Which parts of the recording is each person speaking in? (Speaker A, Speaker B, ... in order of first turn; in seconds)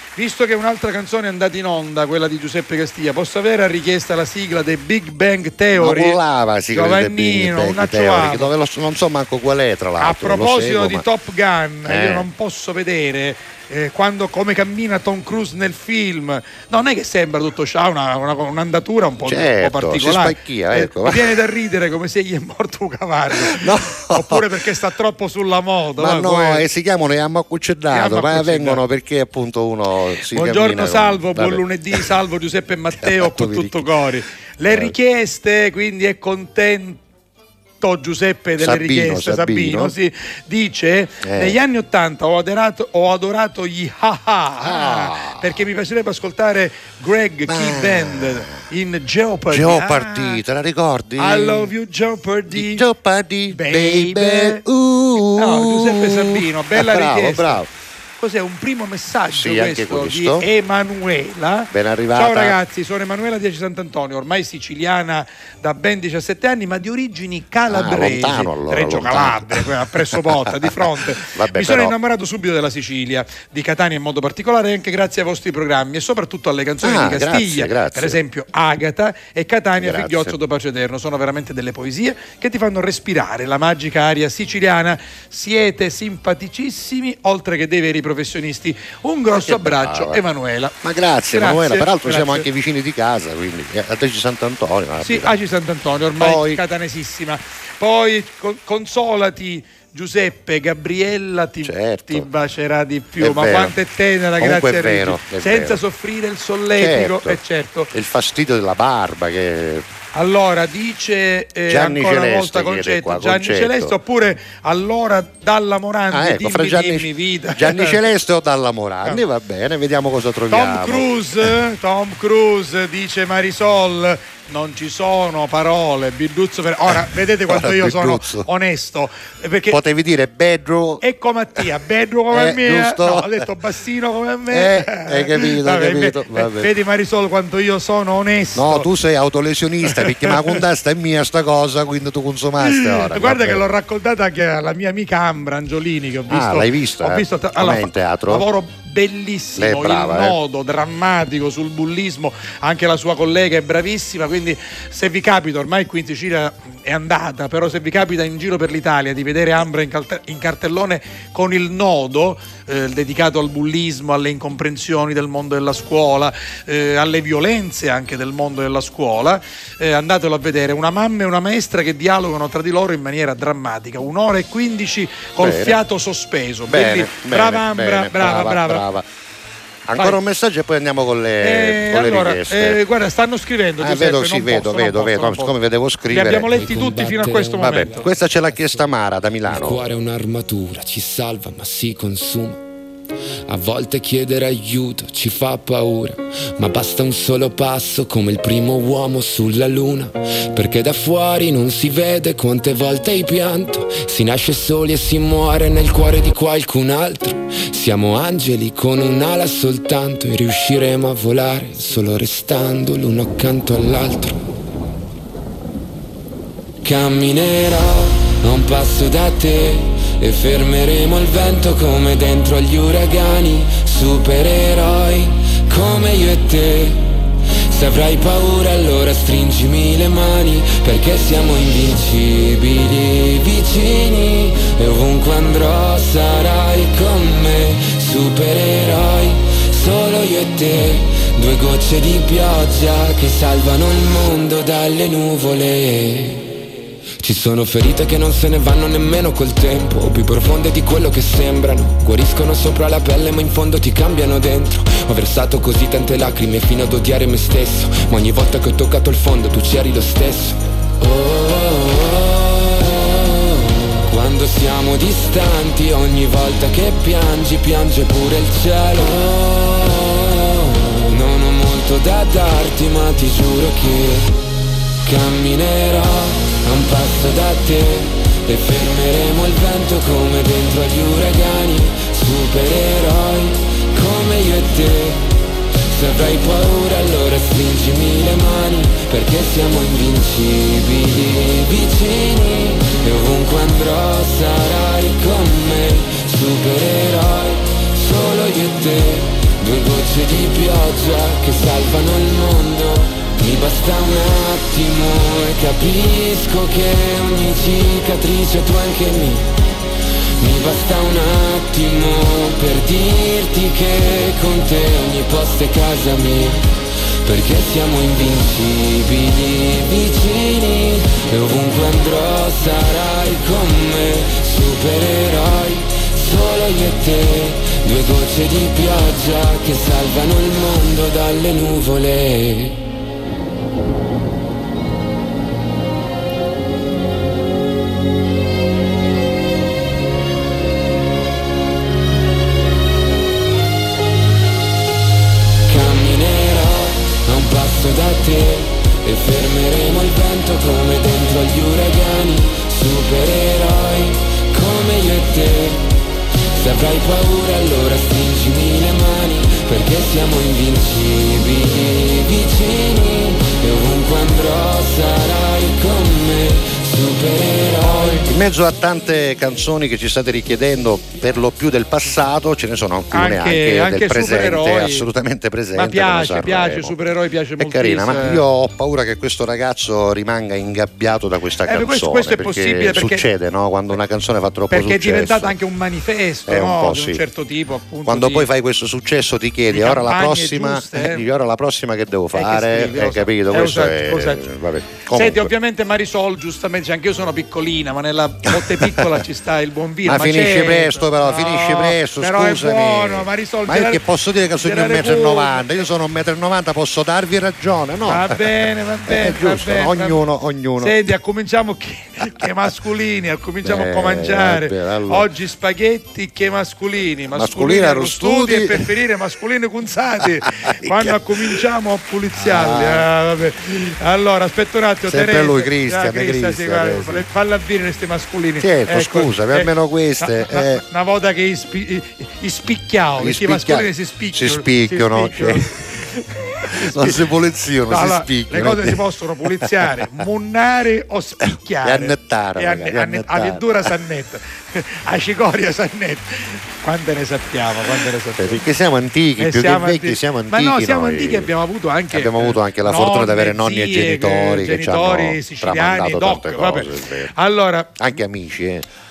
Speaker A: 0.2-6.2, 6.7-8.5, 10.0-26.7, 27.9-28.8, 30.3-37.0, 37.8-50.4, 51.2-52.8, 53.5-54.6, 55.4-57.6, 58.2-90.8, 91.3-92.5, 95.0-107.9, 110.1-118.0, 120.5-129.8, 131.0-138.9, 140.0-140.4, 142.6-178.8, 181.4-185.6, 186.1-188.1, 373.1-375.1, 375.7-378.4, 381.7-383.3, 384.7-388.5, 389.7-391.3, 392.3-394.4, 395.1-404.0, 404.6-405.8, 408.1-410.2, 410.8-437.2, 437.9-448.6, 449.4-458.1
Speaker B: 5.8-11.0, 11.9-12.3, 19.2-21.3, 23.4-24.4, 26.0-32.1, 33.0-33.9, 38.6-39.9, 41.2-41.6, 44.6-45.5, 47.5-48.5, 49.5-51.7, 52.5-57.7, 59.3-60.5, 61.7-62.6, 67.7-72.0, 76.8-78.2, 79.8-80.4, 89.3-90.2, 90.8-95.3, 96.2-96.6, 101.6-102.3, 103.2-103.8, 104.4-105.8, 106.8-107.4, 107.9-109.8, 111.7-114.0, 116.1-121.3, 127.5-128.5, 129.7-131.0, 132.3-133.5, 134.5-136.7, 138.6-143.6, 146.3-148.5, 149.6-150.4, 175.4-175.8, 176.7-179.1, 179.9-182.8, 183.8-186.6, 187.6-189.8, 368.2-376.9, 377.6-385.5, 386.5-387.2, 388.1-395.5, 398.5-399.1, 400.1-408.5, 409.1-411.1, 413.6-415.3, 417.3-418.8, 420.6-421.5, 422.4-423.1, 425.1-427.2, 428.6-430.8, 433.2-435.7, 436.7-439.0, 439.6-440.1, 441.8-443.9, 448.4-451.5, 452.1-457.3, 458.0-458.9
Speaker C: 186.5-188.8, 189.5-192.6, 193.5-214.4, 216.8-227.1, 227.7-246.6, 247.2-274.3, 275.0-285.2, 285.9-309.5, 310.4-316.7, 317.2-332.8, 345.7-355.8, 356.6-368.3